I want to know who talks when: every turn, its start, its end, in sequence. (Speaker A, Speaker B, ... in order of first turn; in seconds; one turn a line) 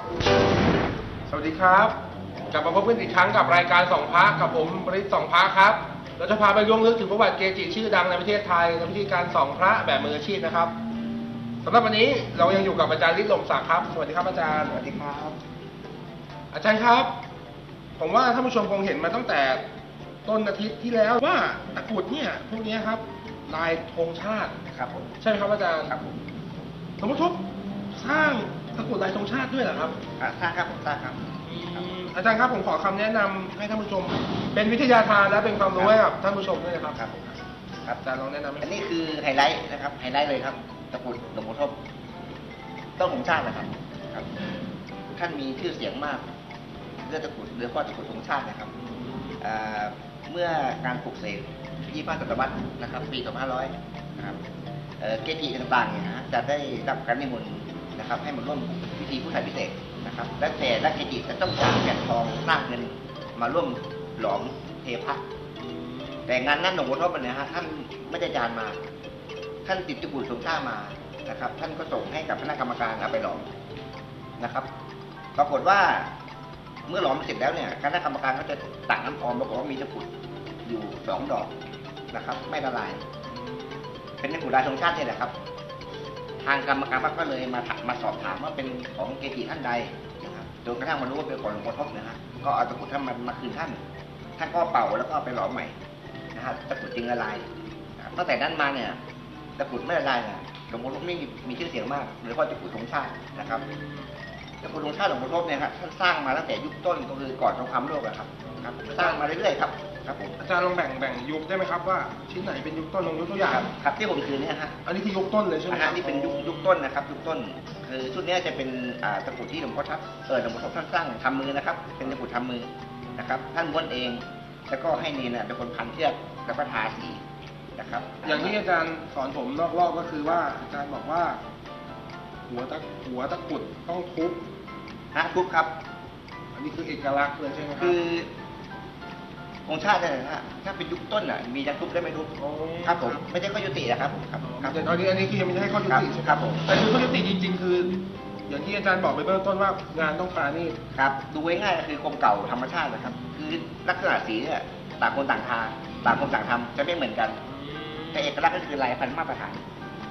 Speaker A: 1.3-1.9
Speaker A: 2.5-10.7
Speaker A: 11.6-14.8
Speaker B: 14.7-15.4
Speaker A: 16.5-17.1
Speaker A: 18.0-19.6
Speaker A: 20.2-24.6
Speaker B: 24.7-25.1
Speaker A: 25.2-25.9
Speaker B: 25.9-26.2
Speaker A: 27.0-30.0
Speaker B: 30.2-31.9
Speaker A: 31.4-37.3
Speaker B: 36.9-37.2
Speaker A: 37.9-38.7
Speaker B: 38.6-41.8
Speaker B: 43.0-44.3
Speaker B: 45.1-46.2
Speaker B: 47.0-48.7
Speaker B: 49.4-54.4
Speaker B: 55.0-65.2
Speaker A: 65.6-66.3
Speaker B: 66.2-68.8
Speaker B: 69.6-73.5
Speaker B: 74.4-74.7
Speaker B: 75.3-76.1
Speaker B: 76.8-80.1
Speaker B: 80.6-81.5
Speaker B: 82.1-83.0
Speaker A: 83.3-83.8
Speaker B: 84.2-85.3
Speaker B: 86.4-93.8
Speaker B: 94.4-95.7
Speaker B: 96.3-99.0
Speaker B: 99.6-103.6
Speaker A: 103.4-104.1
Speaker B: 104.6-110.4
Speaker A: 109.0-109.2
Speaker A: 110.4-113.7
Speaker B: 113.5-114.8
Speaker A: 114.8-116.7
Speaker B: 115.7-127.2
Speaker B: 127.7-128.6
Speaker A: 128.2-131.4
Speaker A: 132.5-134.4
Speaker B: 135.1-135.7
Speaker A: 136.5-138.0
Speaker B: 137.8-138.3
Speaker B: 139.7-144.8
Speaker A: 142.4-143.2
Speaker A: 144.4-147.9
Speaker B: 145.9-146.6
Speaker A: 148.5-150.8
Speaker B: 150.9-157.4
Speaker A: 157.4-158.3
Speaker B: 158.1-159.6